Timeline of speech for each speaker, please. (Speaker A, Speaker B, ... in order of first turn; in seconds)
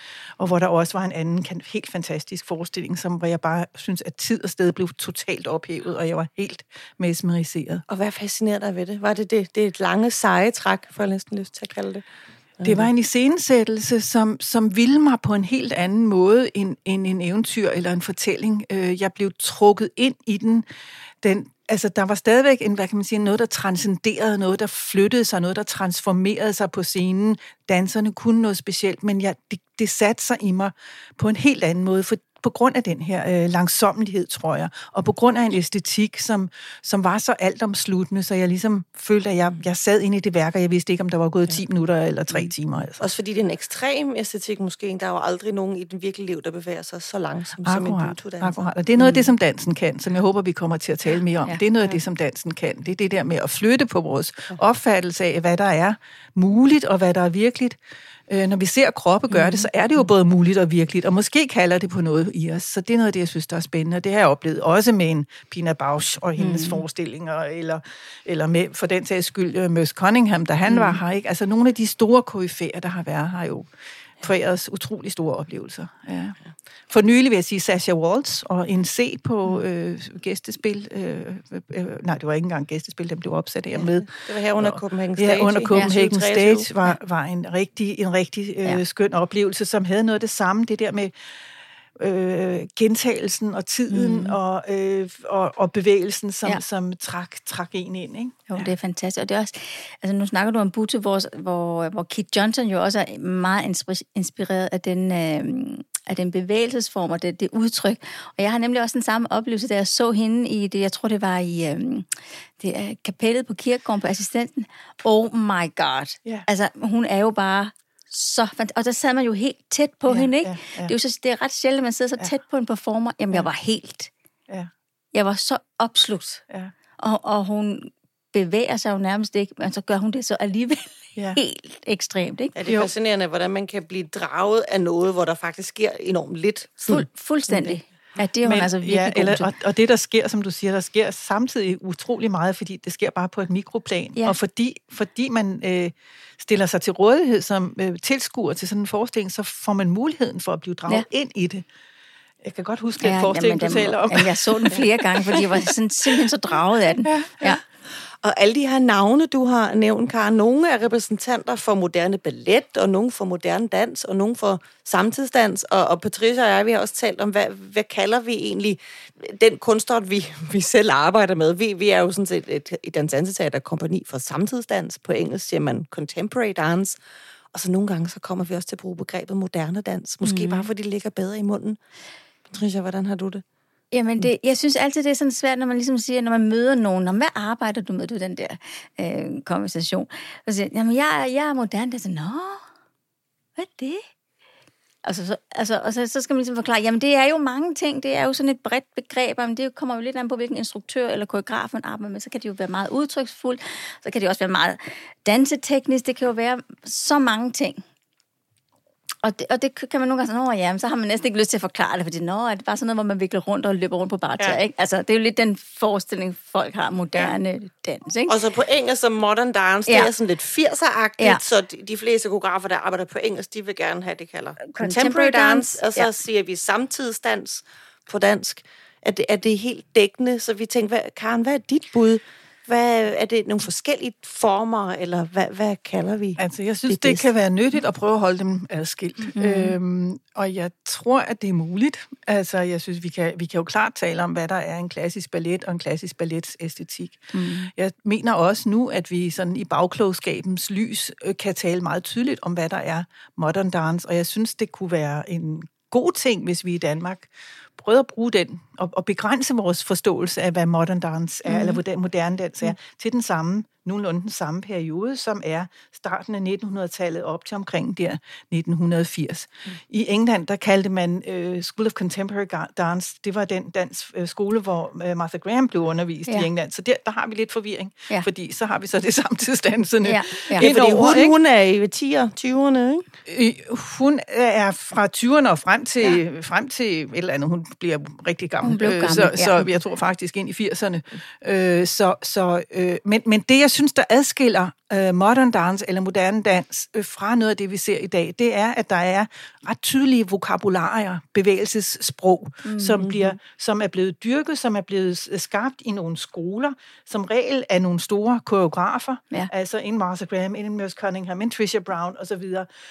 Speaker A: 0.4-7.8, 12.6-20.6, 21.2-43.0, 47.6-57.8, 58.3-73.7, 74.2-91.1, 92.0-98.7, 120.1-120.9, 132.7-132.9, 138.4-151.6, 152.4-156.2, 157.0-157.5, 236.4-281.3, 283.3-312.7
Speaker B: 7.9-12.0, 12.6-12.9, 43.0-49.2, 83.7-86.7, 132.5-137.8, 157.9-177.0, 177.5-181.8, 182.4-183.4, 218.3-237.3, 280.6-283.1
Speaker C: 59.3-59.7, 66.4-66.8, 70.7-71.0, 93.9-94.4, 98.5-124.1, 125.1-126.4, 127.0-132.6, 136.9-139.5, 153.0-157.6, 180.2-180.7, 183.9-192.6, 193.6-194.1, 195.0-207.8, 209.2-218.4, 224.6-226.1, 239.3-239.7, 247.3-247.7, 261.4-261.8, 280.0-280.7, 288.6-289.7, 302.6-303.1